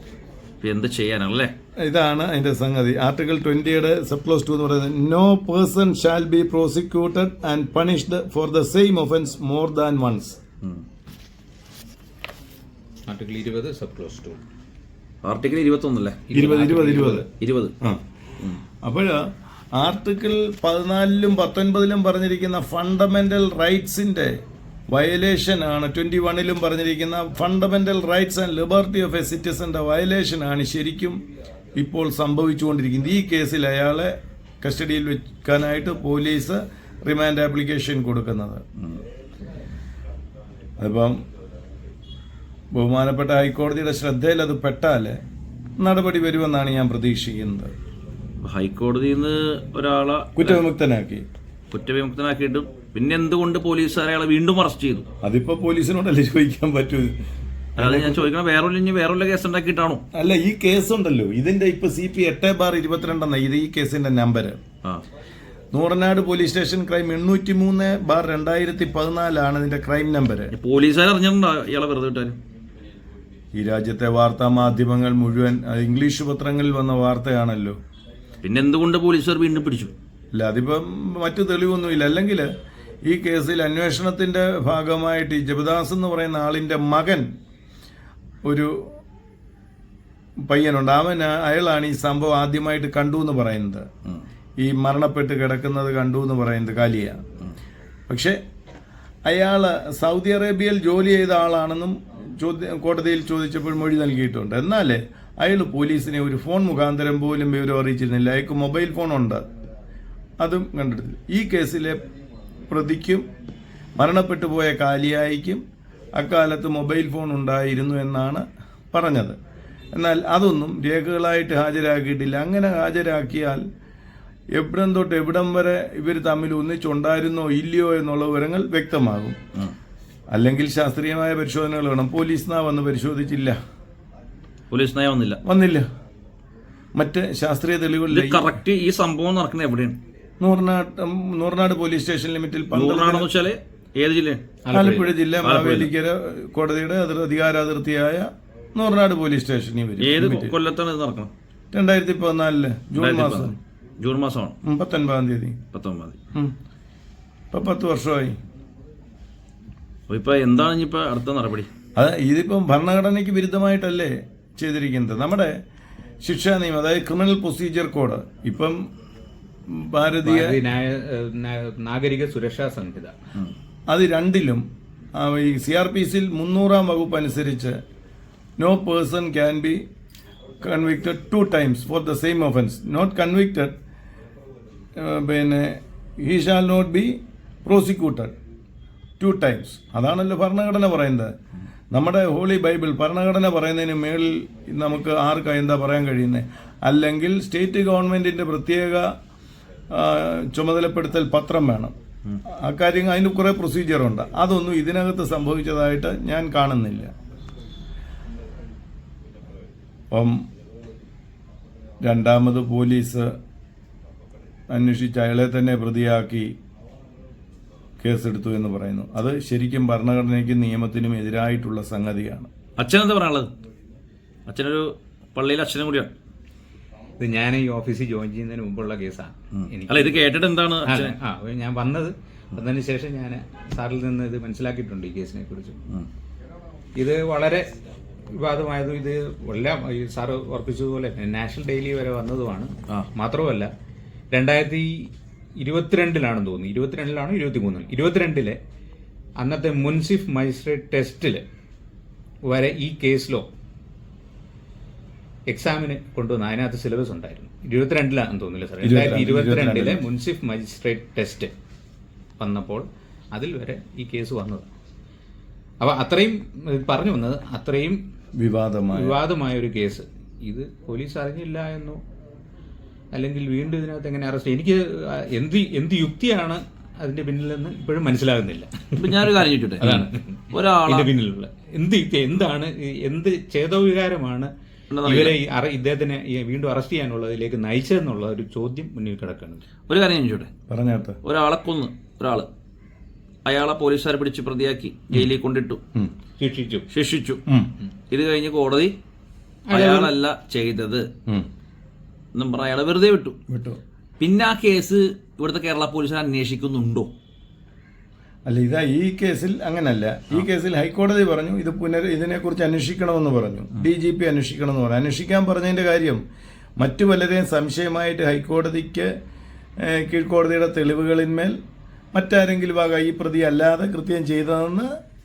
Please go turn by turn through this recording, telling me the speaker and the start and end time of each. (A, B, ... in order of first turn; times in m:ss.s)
0:00.6-0:01.5 A
0:01.8-0:10.4 B
0:13.1-0:14.4 C
0:15.2-0:16.2 A
0:16.3-0:17.3 C
0:16.3-0:17.3 B
0:17.4-0:17.7 A
0:18.7-0:31.2 B
0:31.8-0:38.6 B
0:38.8-0:39.0 A
0:40.8-0:41.2 B
0:42.7-0:45.2 B
0:45.8-0:47.7 B
0:48.4-0:50.6 A
0:50.4-0:51.3 B
0:51.7-0:55.1 A
0:55.2-0:57.2 B
0:57.8-0:58.3 B
0:57.8-1:00.0 A
1:00.1-1:04.6 B
1:05.7-1:10.5 B
1:10.5-1:12.4 A
1:13.6-1:17.8 B
1:18.4-1:19.9 A
1:20.3-1:22.5 B
1:23.1-1:27.3 B
1:28.5-1:28.9 B
1:30.5-1:33.9 B
1:34.6-1:37.2 B
1:38.1-1:38.4 B
1:39.3-1:49.4 B
1:50.4-1:52.0 B
1:52.7-1:53.3 B
1:54.0-1:55.6 B
1:56.2-1:59.4 B
2:00.0-2:03.6 B
2:04.5-2:09.4 B
2:10.3-2:13.6 B
2:14.7-2:15.4 A
2:15.4-2:15.9 B
2:17.0-2:18.5 B
2:18.1-2:20.0 A
2:20.4-2:23.3 B
2:22.7-2:24.5 A
2:24.6-2:25.2 C
2:24.7-2:30.6 B
2:25.4-2:25.9 A
2:30.0-2:31.3 A
2:31.7-2:33.6 B
2:33.0-2:34.6 A
2:34.6-2:35.6 B
2:35.7-2:36.2 A
2:37.5-2:38.4 B
2:40.1-2:41.7 A
2:42.0-2:45.6 B
2:46.2-2:48.8 B
2:49.7-2:50.6 B
2:50.2-2:53.2 C
2:53.9-2:54.6 B
2:55.2-2:57.8 B
2:58.6-2:59.8 B
3:00.6-3:03.8 B
3:05.0-3:08.4 B
3:09.2-3:11.3 B
3:11.9-3:19.1 B
3:19.9-3:21.9 B
3:22.5-3:27.1 B
3:30.1-3:30.4 B
3:32.0-3:33.3 B
3:34.7-3:36.6 B
3:38.0-3:42.5 B
3:42.8-3:43.5 A
3:44.5-3:46.1 A
3:47.2-3:50.3 C
3:49.5-3:51.2 A
3:50.9-3:55.8 C
3:57.0-3:57.7 C
3:58.3-4:03.7 C
4:04.3-4:08.6 C
4:09.4-4:11.4 C
4:12.4-4:13.5 C
4:15.5-4:21.5 C
4:18.8-4:20.0 B
4:22.4-4:24.7 C
4:25.8-4:28.0 C
4:28.4-4:29.2 B
4:28.9-4:32.0 C
4:33.1-4:44.5 C
4:39.0-4:41.1 A
4:44.9-4:45.4 A
4:45.0-4:49.6 C
4:49.9-4:50.5 A
4:50.7-4:51.2 B
4:51.2-4:52.5 A
4:53.5-4:55.8 A
4:56.4-4:56.9 C
4:56.9-4:57.4 A
4:58.1-4:58.9 A
4:59.7-5:00.1 C
4:59.7-5:01.1 A
5:02.4-5:03.4 A
5:03.5-5:03.8 B
5:04.2-5:07.1 A
5:08.5-5:16.2 B
5:16.8-5:19.1 B
5:19.8-5:21.6 B
5:22.1-5:24.9 B